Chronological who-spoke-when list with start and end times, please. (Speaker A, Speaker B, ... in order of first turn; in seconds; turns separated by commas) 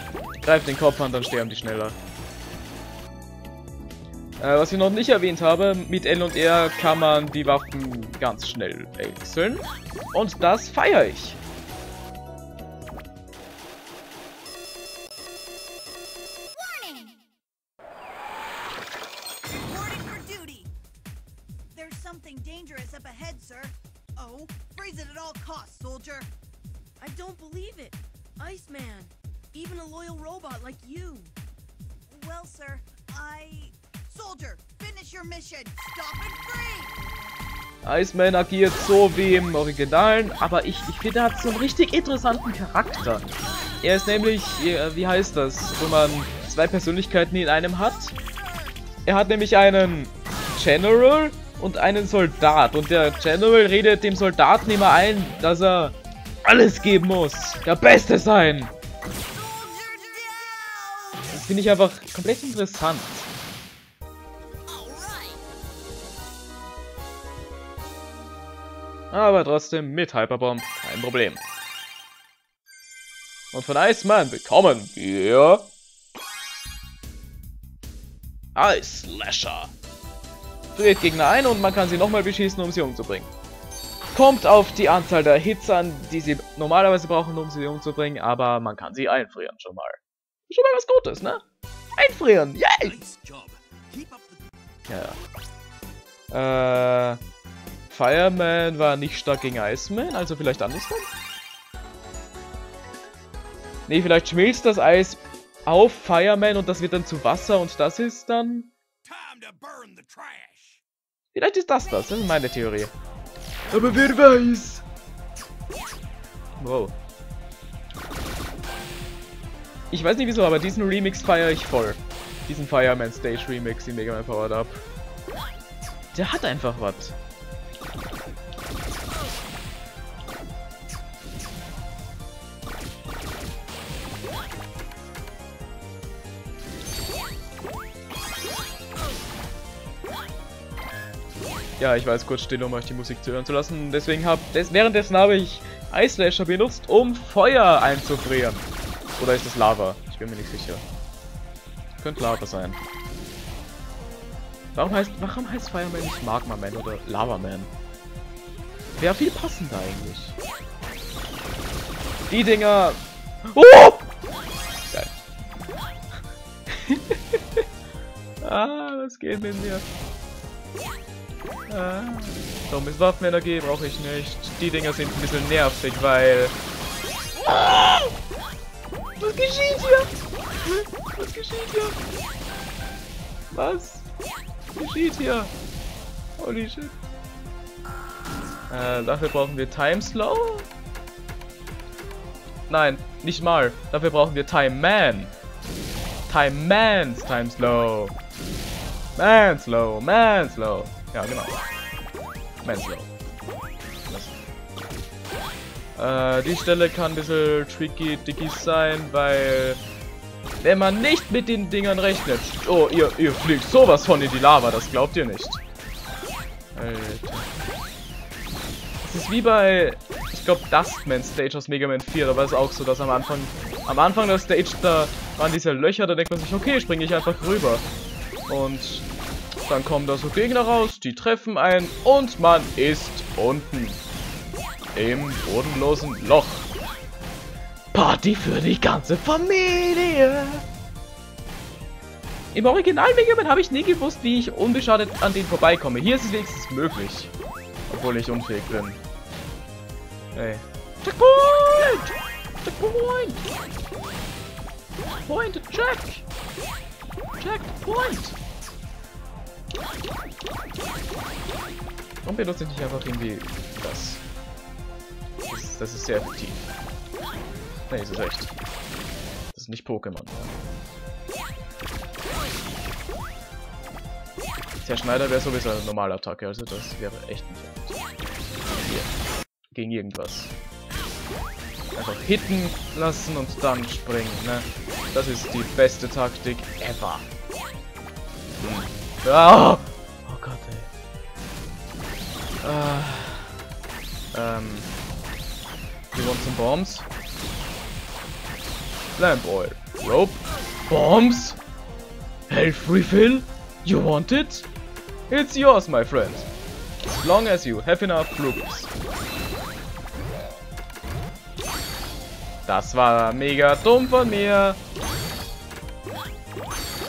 Speaker A: 0.4-2.0, Speaker A: 4.4-11.4, Speaker B: 16.8-17.1, Speaker B: 19.6-20.7, Speaker B: 21.7-26.3, Speaker C: 27.0-31.3, Speaker B: 32.1-37.0, Speaker A: 37.8-43.3, Speaker A: 43.8-48.1, Speaker A: 49.0-58.7, Speaker B: 59.3-61.2, Speaker A: 61.3-63.3, Speaker B: 64.7-65.4, Speaker A: 69.1-71.4, Speaker A: 73.5-75.7, Speaker A: 78.5-79.7, Speaker A: 80.7-83.3, Speaker A: 84.1-91.4, Speaker A: 92.0-93.0, Speaker C: 93.0-94.5, Speaker A: 94.9-95.2, Speaker A: 96.3-97.2, Speaker A: 97.9-101.1, Speaker A: 103.9-108.7, Speaker C: 109.0-110.8, Speaker A: 111.3-112.9, Speaker A: 113.7-114.8, Speaker A: 116.6-117.0, Speaker A: 119.9-124.8, Speaker A: 126.1-127.2, Speaker A: 141.8-150.8, Speaker A: 152.0-152.8, Speaker A: 154.7-157.7, Speaker A: 158.9-160.4, Speaker A: 162.3-164.1, Speaker A: 166.7-167.6, Speaker A: 168.4-169.8, Speaker A: 171.7-176.5, Speaker A: 177.4-178.1, Speaker A: 179.2-182.0, Speaker A: 183.5-184.1, Speaker A: 184.8-185.5, Speaker A: 186.4-186.9, Speaker A: 188.7-190.7, Speaker A: 192.7-195.3, Speaker A: 196.3-198.2, Speaker A: 199.2-201.7, Speaker A: 202.6-203.1, Speaker A: 204.1-204.3, Speaker A: 205.9-209.8, Speaker A: 210.6-215.6, Speaker A: 216.7-217.5, Speaker A: 219.0-227.8, Speaker A: 228.5-229.1, Speaker A: 229.7-234.0, Speaker A: 234.9-236.7, Speaker A: 237.9-240.6, Speaker A: 242.5-247.3, Speaker A: 247.9-249.0, Speaker A: 250.3-253.4, Speaker A: 255.2-256.2, Speaker A: 257.4-258.4, Speaker A: 262.2-264.2, Speaker A: 265.5-266.6, Speaker A: 267.9-268.5, Speaker A: 269.5-270.5, Speaker A: 274.8-278.0, Speaker A: 278.8-279.1, Speaker A: 279.7-280.5, Speaker A: 281.9-287.3, Speaker A: 288.6-290.9, Speaker A: 292.6-293.5, Speaker A: 294.3-294.9, Speaker A: 296.1-297.1, Speaker A: 299.2-301.6, Speaker A: 302.5-304.7, Speaker A: 305.3-306.5, Speaker A: 307.0-308.9, Speaker A: 312.7-314.8